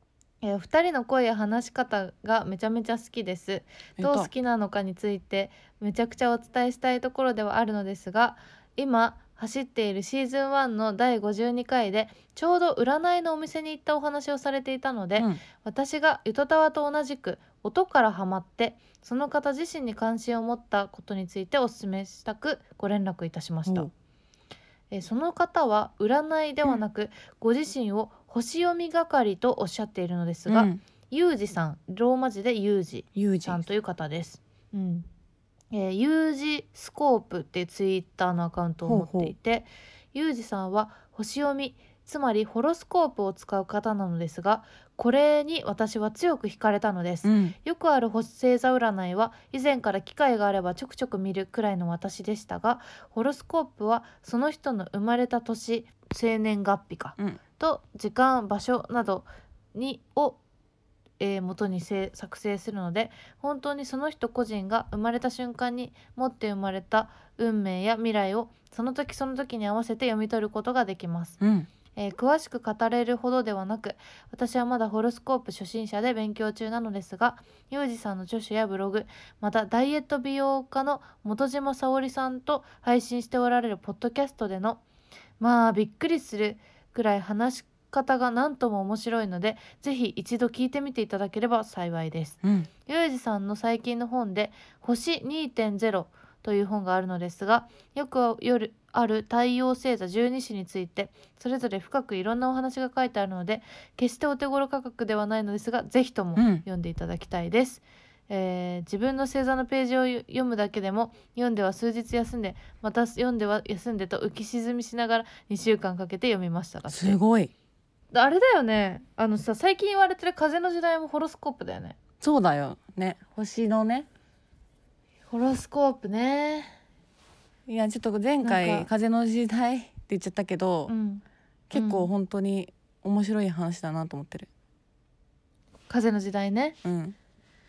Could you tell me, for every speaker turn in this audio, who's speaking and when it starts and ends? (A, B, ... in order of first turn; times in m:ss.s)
0:00.4-0:23.9 A
0:04.0-0:04.3 B
0:24.9-0:35.1 A
0:30.5-0:30.8 B
0:33.1-0:33.6 B
0:35.7-1:00.4 A
0:38.8-0:39.3 B
0:47.2-0:47.5 B
1:01.2-1:11.4 A
1:11.4-1:11.7 B
1:11.9-1:24.8 A
1:25.4-1:57.2 A
1:32.4-1:32.7 B
1:46.4-1:46.6 B
1:56.9-1:57.5 B
1:58.1-2:02.0 A
2:02.2-2:04.1 B
2:05.3-2:06.7 A
2:07.7-2:10.9 B
2:08.4-2:08.9 A
2:10.9-2:12.1 A
2:11.7-2:14.5 B
2:15.9-2:16.8 A
2:16.8-2:17.1 B